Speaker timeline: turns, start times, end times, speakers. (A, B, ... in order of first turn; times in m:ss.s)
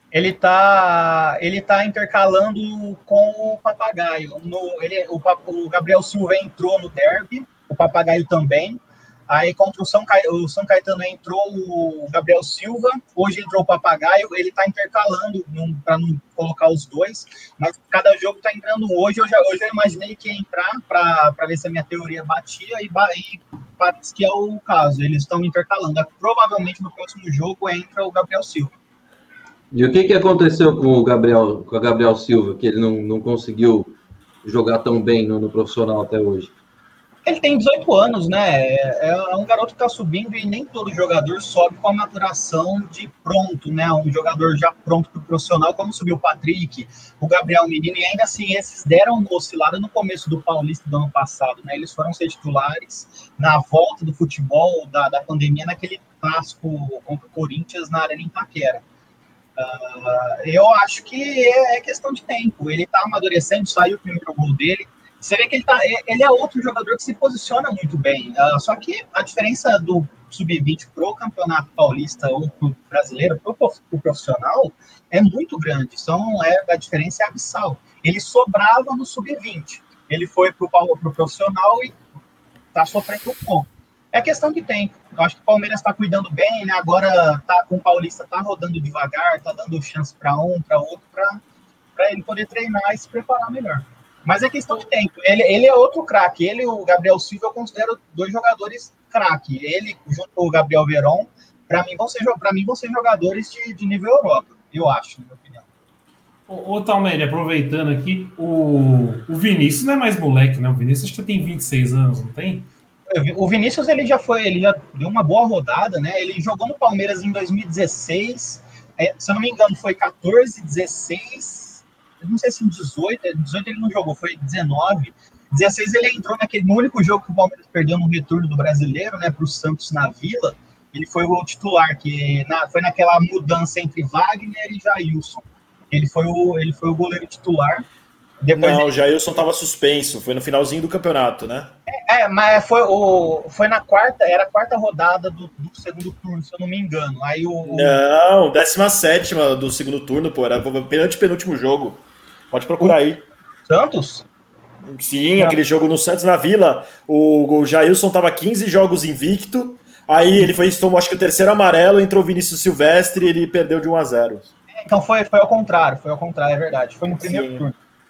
0:00.1-0:28.7 A
0:29.7-0:36.6 B
0:37.2-0:58.8 A
0:59.6-1:22.0 A
1:22.7-1:31.4 A
1:32.0-1:45.6 A
1:46.5-1:52.7 C
1:53.1-2:17.8 A
2:18.4-2:18.9 A
2:18.6-2:21.8 D
2:21.9-2:28.0 A
2:27.7-2:33.2 D
2:33.7-2:34.3 A
2:34.8-2:44.5 D
2:44.7-2:47.8 A
2:47.2-2:47.6 D